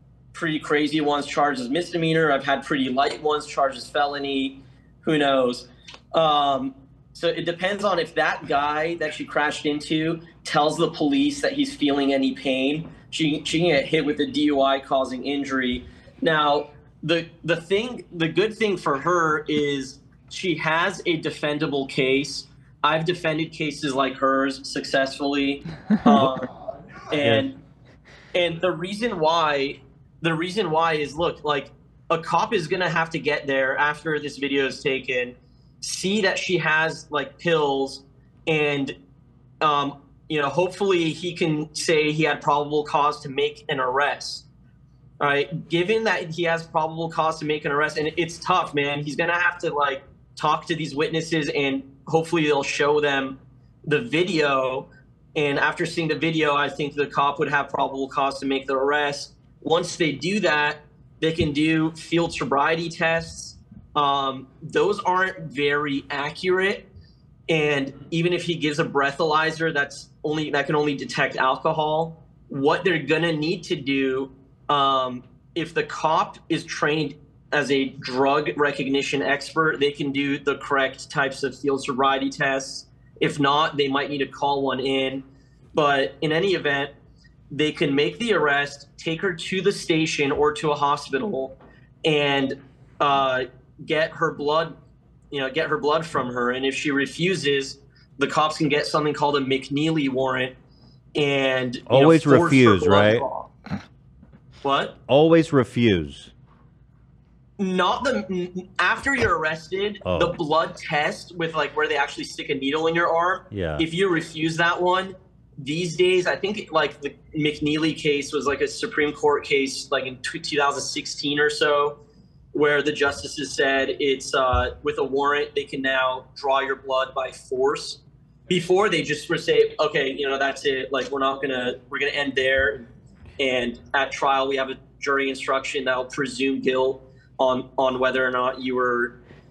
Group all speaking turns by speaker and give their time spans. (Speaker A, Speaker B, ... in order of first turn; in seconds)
Speaker A: 0.3-26.5, 27.1-27.5, 28.3-38.9, 39.6-44.4, 45.2-66.9, 67.5-86.9, 87.5-94.7, 95.3-100.5, 101.1-103.5, 104.6-104.9, 107.6-122.0, 122.5-132.8, 133.4-139.2
Speaker B: 26.1-26.4, 27.1-27.5, 101.9-103.2, 105.1-106.3, 110.0-110.4, 113.5-113.9